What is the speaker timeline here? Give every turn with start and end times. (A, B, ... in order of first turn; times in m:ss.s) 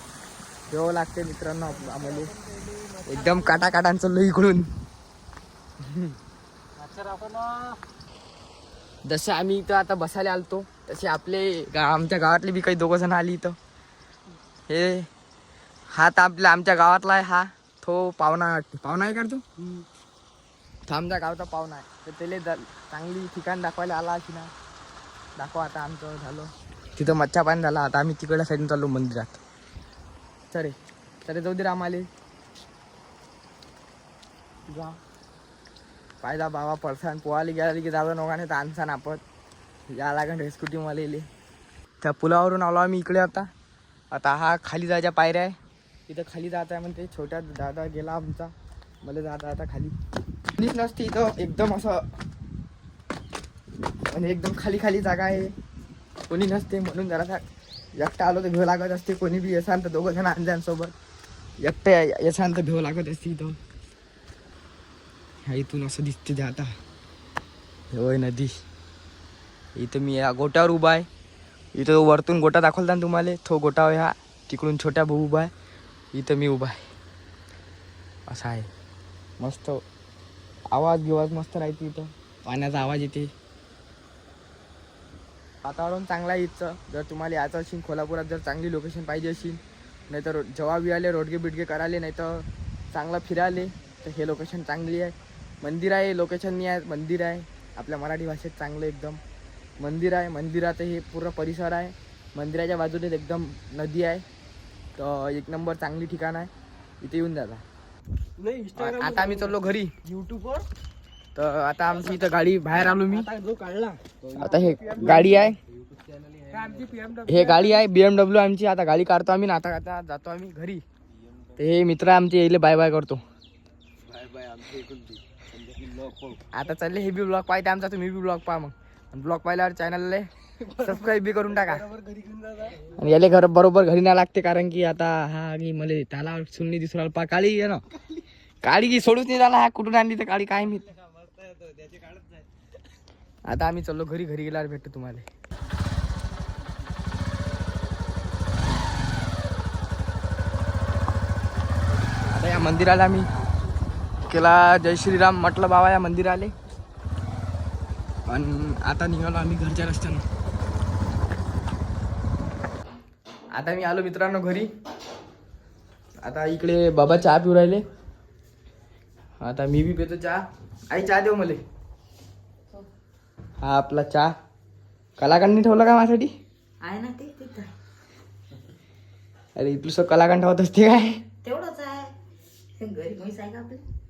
0:00.7-0:02.4 A
0:01.9-0:03.4 B
0:03.0-0:04.7 A
0:05.8-0:06.2 A
0:06.8-0:07.8 B
0:09.0-0:13.6 A
0:14.7-0:15.1 A
0:15.9-0:19.4 A
0:20.9-0:24.5 A
0:25.4-0:29.4 A
0:30.5-0:32.1 A
0:34.7-0:35.0 A
0:36.2-0:39.2 A
0:39.9-0:41.3 A
0:42.0-0:43.5 A
0:44.1-0:45.6 A
0:46.1-0:50.0 A
0:50.6-0:52.1 A
0:54.1-0:55.5 A
0:56.3-0:57.4 A
0:58.0-1:00.9 A
1:01.6-1:03.6 A
1:05.4-1:06.7 A
1:07.9-1:08.6 A
1:09.8-1:11.1 A
1:11.8-1:15.5 A
1:16.1-1:16.8 A
1:18.3-1:18.7 A
1:19.4-1:19.8 A
1:20.7-1:23.3 A
1:25.6-1:39.2 A
1:39.8-1:44.2 A
1:45.0-1:46.5 A
1:47.0-1:47.6 A
1:48.4-1:50.7 B
1:48.8-1:50.0 A
1:51.4-1:53.3 A
1:53.0-1:57.5 B
1:54.3-1:55.6 A
1:57.3-2:00.8 A
2:01.6-2:03.2 A
2:04.0-2:06.4 B
2:06.5-2:11.9 A
2:11.9-2:12.8 B
2:12.8-2:17.8 A
2:18.6-2:21.0 A
2:21.4-2:22.4 B
2:23.5-2:25.2 A
2:32.2-2:33.3 A
2:34.2-2:36.5 A
2:38.3-2:40.2 A
2:43.5-2:44.7 A
2:46.2-2:47.8 A
2:49.4-2:51.6 A
2:53.6-2:54.3 A
2:55.2-2:56.3 A
2:56.8-2:57.7 C
2:59.6-3:01.2 A
3:01.4-3:02.2 C
3:02.8-3:03.8 C